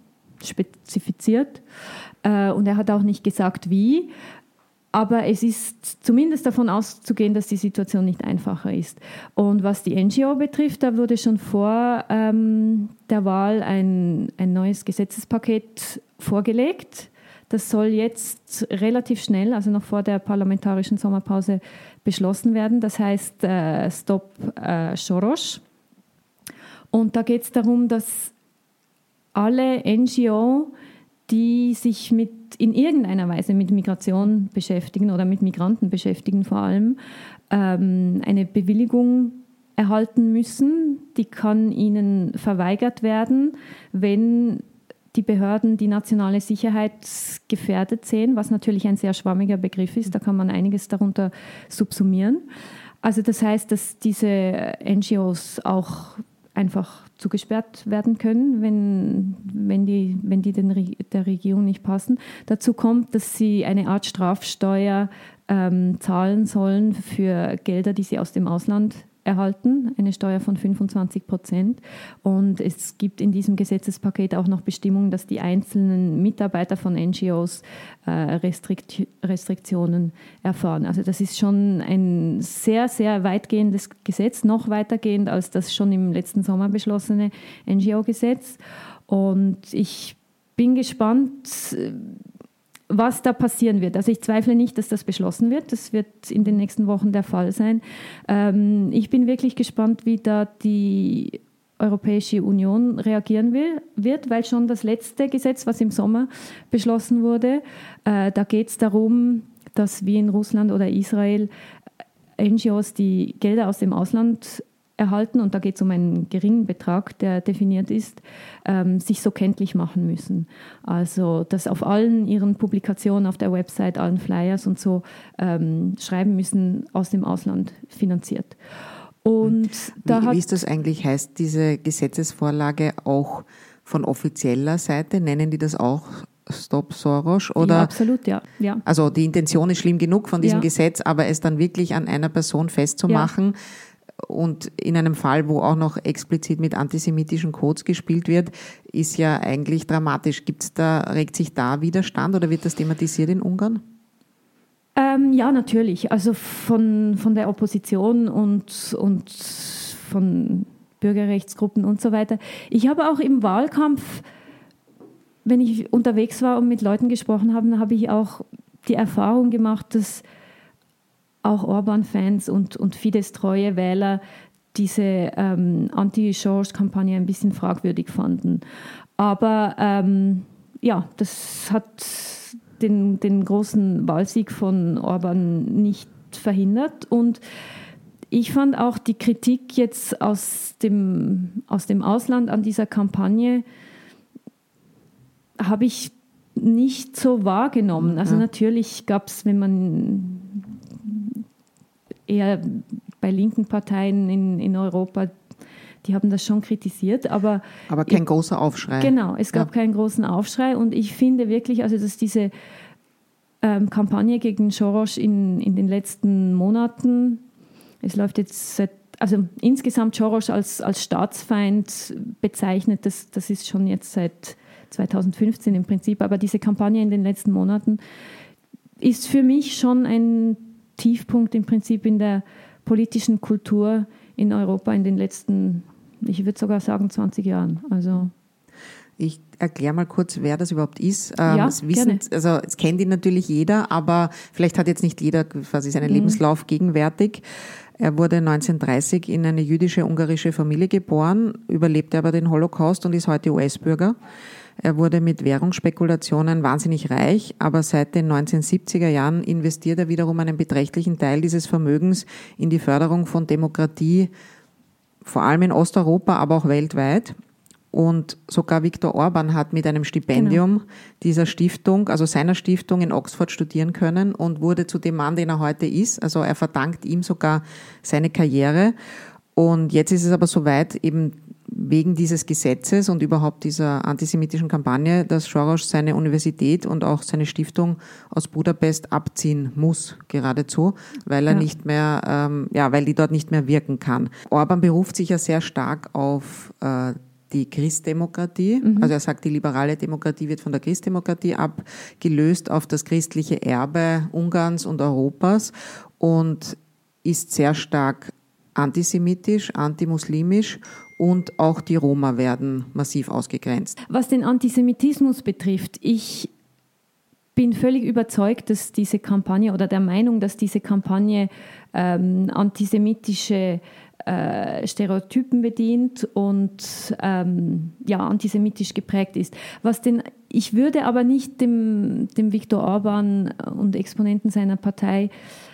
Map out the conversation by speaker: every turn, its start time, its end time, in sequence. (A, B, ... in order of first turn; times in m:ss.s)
0:00.4-0:01.6 A
0:02.2-0:04.1 A
0:04.9-0:25.6 A
0:26.9-0:28.3 A
0:29.3-0:30.7 A
0:31.3-0:37.0 A
0:37.5-0:52.4 A
0:53.0-1:32.2 A
1:32.9-1:51.5 A
1:52.4-2:08.5 A
2:09.2-2:10.4 A
2:09.4-2:17.9 B
2:17.6-2:18.8 A
2:18.8-2:23.5 B
2:20.4-2:20.7 A
2:24.2-2:33.8 B
2:35.0-2:44.2 A
2:45.4-2:50.2 A
2:51.4-2:54.2 A
2:54.7-2:58.6 A
2:59.2-3:07.4 A
3:08.3-3:13.6 A
3:15.6-3:21.4 A
3:18.0-3:18.4 B
3:22.3-3:25.3 A
3:26.0-3:28.2 A
3:27.9-3:29.7 B
3:29.0-3:32.5 A
3:33.6-3:37.4 A
3:38.0-3:48.0 A
3:49.0-3:58.3 A
3:59.2-4:07.4 B
4:01.4-4:02.2 A
4:06.0-4:06.4 A
4:08.0-4:14.1 B
4:14.8-4:24.3 B
4:25.2-4:27.4 B
4:27.9-4:38.9 B
4:30.3-4:30.6 A
4:39.5-5:14.0 B
4:58.8-4:59.1 A
5:14.1-5:16.5 A
5:17.6-5:35.3 A